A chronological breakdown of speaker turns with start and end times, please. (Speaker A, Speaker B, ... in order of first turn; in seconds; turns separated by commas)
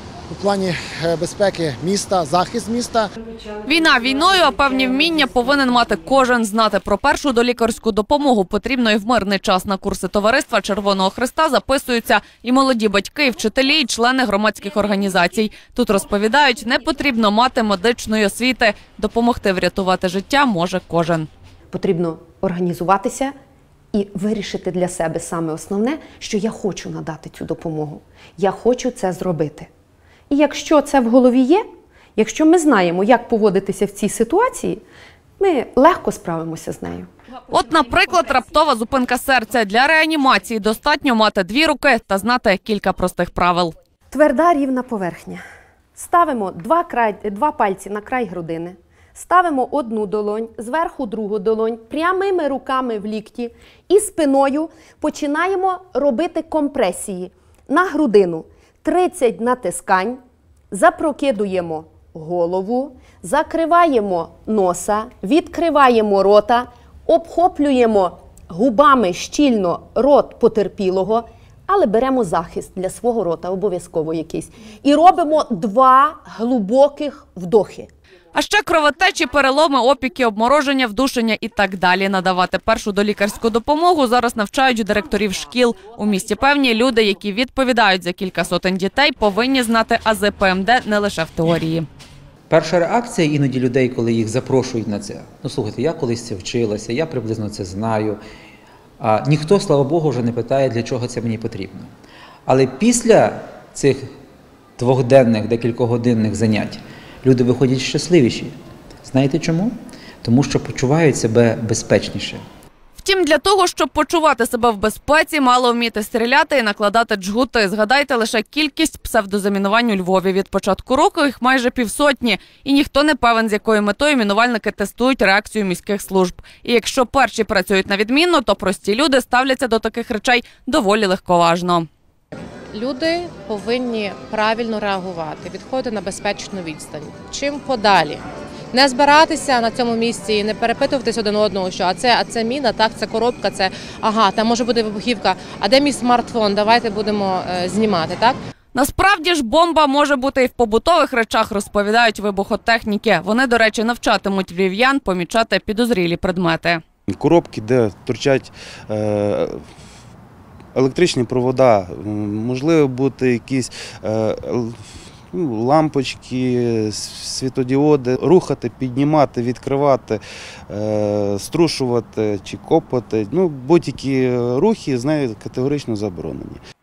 Speaker A: 0.3-3.1, Speaker B: 3.7-21.3, Speaker C: 21.7-23.3, Speaker C: 23.9-29.7, Speaker C: 30.3-31.6, Speaker C: 32.2-34.8, Speaker C: 35.4-37.1, Speaker B: 37.5-43.7, Speaker C: 44.1-45.4, Speaker C: 46.0-60.2, Speaker C: 60.7-77.9, Speaker B: 78.3-91.9, Speaker D: 92.5-98.2, Speaker D: 99.0-101.9, Speaker D: 102.5-104.0, Speaker D: 104.8-108.5, Speaker D: 109.0-112.4, Speaker B: 113.0-131.9, Speaker E: 132.7-148.4, Speaker B: 148.7-156.8, Speaker F: 157.1-159.6, Speaker F: 160.8-164.8, Speaker F: 165.3-176.6